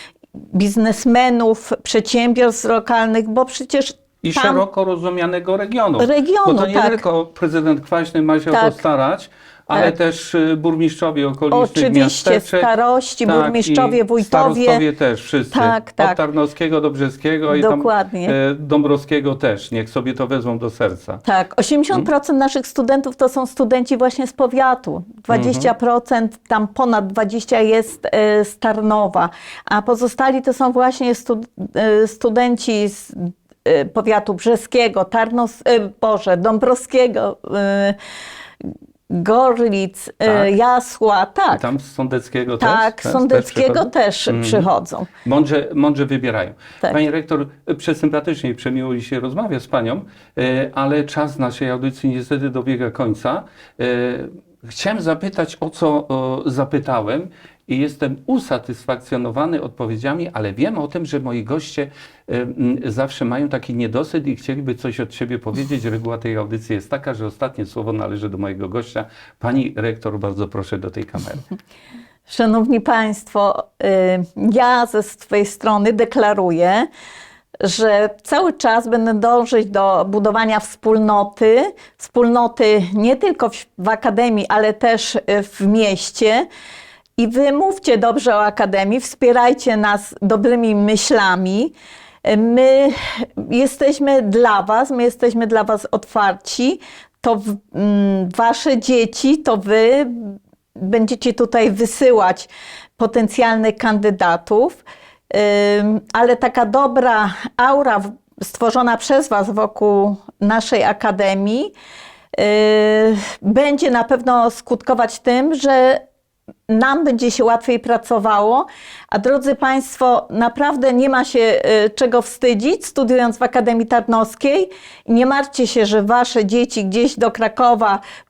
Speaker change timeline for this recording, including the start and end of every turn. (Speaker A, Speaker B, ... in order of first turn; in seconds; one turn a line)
Speaker A: 0.5-4.6
Speaker B: 4.2-12.7
Speaker A: 6.0-7.0
Speaker A: 8.5-8.8
Speaker A: 11.5-14.8
Speaker B: 13.2-21.2
Speaker A: 15.5-16.2
Speaker A: 17.5-18.4
Speaker A: 21.2-38.0
Speaker B: 25.3-25.7
Speaker A: 39.1-41.6
Speaker B: 40.2-40.5
Speaker B: 41.5-44.7
Speaker A: 42.6-45.1
Speaker B: 45.2-71.4
Speaker A: 72.3-76.9
Speaker A: 77.6-86.5
Speaker A: 87.2-111.7
Speaker A: 112.3-116.0
Speaker A: 116.7-128.0